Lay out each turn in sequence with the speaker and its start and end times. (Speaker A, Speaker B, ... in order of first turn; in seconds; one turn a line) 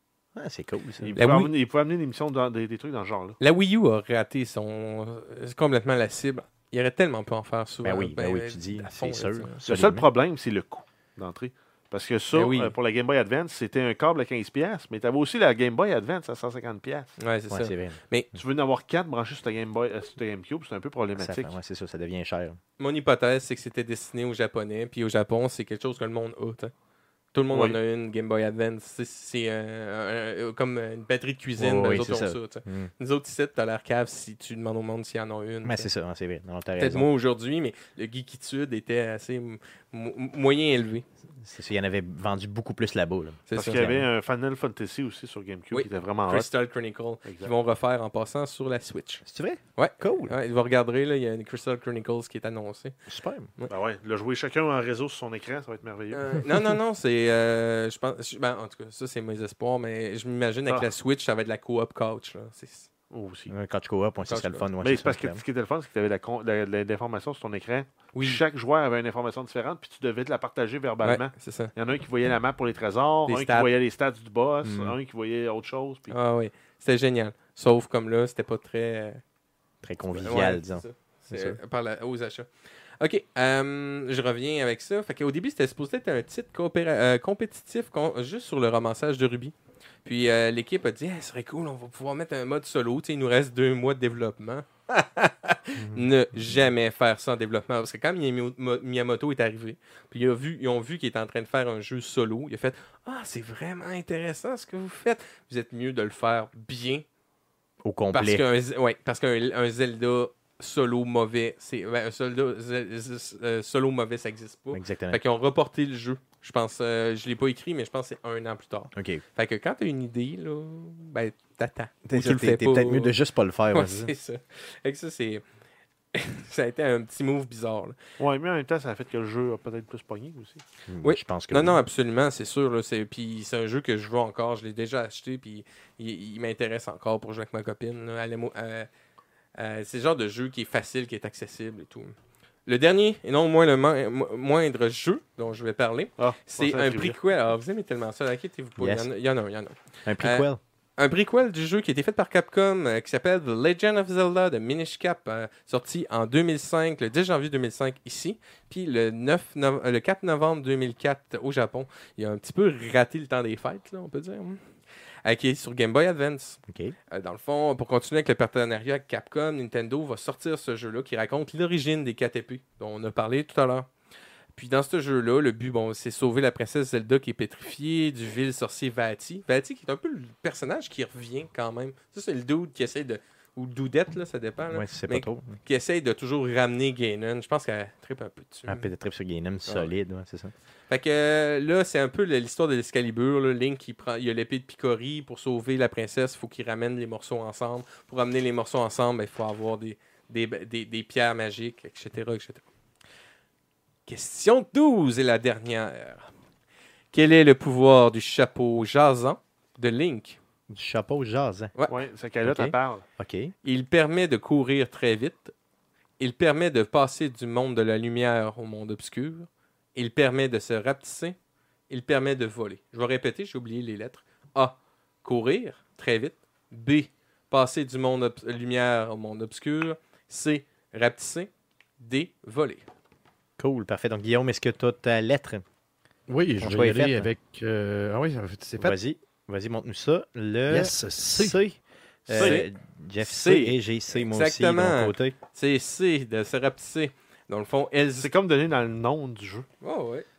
Speaker A: 0.4-1.1
Speaker B: 1.0-3.4
Speaker C: 1.2-1.5
Speaker C: 3.4-9.6
Speaker A: 7.8-10.1
Speaker B: 9.7-17.1
Speaker C: 12.3-12.7
Speaker C: 17.2-18.3
Speaker A: 17.5-18.0
Speaker B: 18.3-21.5
Speaker A: 21.2-22.6
Speaker C: 22.8-26.7
Speaker C: 27.3-35.9
Speaker B: 27.5-27.8
Speaker A: 31.6-32.9
Speaker A: 35.6-37.1
Speaker C: 36.8-41.0
Speaker A: 41.4-44.0
Speaker C: 43.5-43.9
Speaker B: 43.5-46.5
Speaker C: 45.7-49.2
Speaker B: 47.2-47.5
Speaker A: 49.2-50.3
Speaker C: 49.8-53.0
Speaker A: 53.1-53.5
Speaker B: 53.7-56.5
Speaker C: 56.1-62.9
Speaker B: 63.1-63.5
Speaker A: 63.5-65.4
Speaker C: 64.3-64.6
Speaker B: 64.8-76.2
Speaker C: 68.1-68.4
Speaker C: 71.0-71.7
Speaker C: 73.3-73.7
Speaker A: 74.6-75.0
Speaker C: 76.1-79.2
Speaker A: 79.8-81.6
Speaker C: 80.1-82.5
Speaker C: 83.0-89.5
Speaker C: 90.0-107.0
Speaker A: 95.8-96.0
Speaker A: 107.8-108.4
Speaker C: 108.1-123.1
Speaker A: 114.7-115.2
Speaker A: 118.9-119.2
Speaker A: 122.0-124.1
Speaker C: 123.7-125.4
Speaker C: 126.1-128.0
Speaker B: 128.2-130.6
Speaker A: 130.9-131.8
Speaker C: 131.0-138.9
Speaker C: 139.6-142.1
Speaker C: 142.7-150.4
Speaker B: 146.2-147.2
Speaker A: 148.8-149.1
Speaker A: 150.1-150.6
Speaker C: 151.0-164.6
Speaker C: 165.2-166.6
Speaker A: 166.7-166.9
Speaker C: 167.1-173.9
Speaker C: 174.6-188.9
Speaker A: 184.7-185.5
Speaker A: 188.7-190.5
Speaker C: 190.9-202.7
Speaker C: 204.1-206.3
Speaker C: 207.1-210.4
Speaker A: 210.7-211.7
Speaker B: 211.9-213.0
Speaker A: 212.4-213.5
Speaker C: 213.6-215.5
Speaker C: 216.2-221.4
Speaker C: 221.9-232.8
Speaker A: 233.6-235.6
Speaker D: 236.3-238.9
Speaker A: 236.6-237.3
Speaker A: 238.8-245.4
Speaker D: 240.7-241.5
Speaker C: 242.3-242.7
Speaker B: 242.3-242.6
Speaker C: 243.2-248.3
Speaker B: 248.2-249.7
Speaker C: 249.8-250.3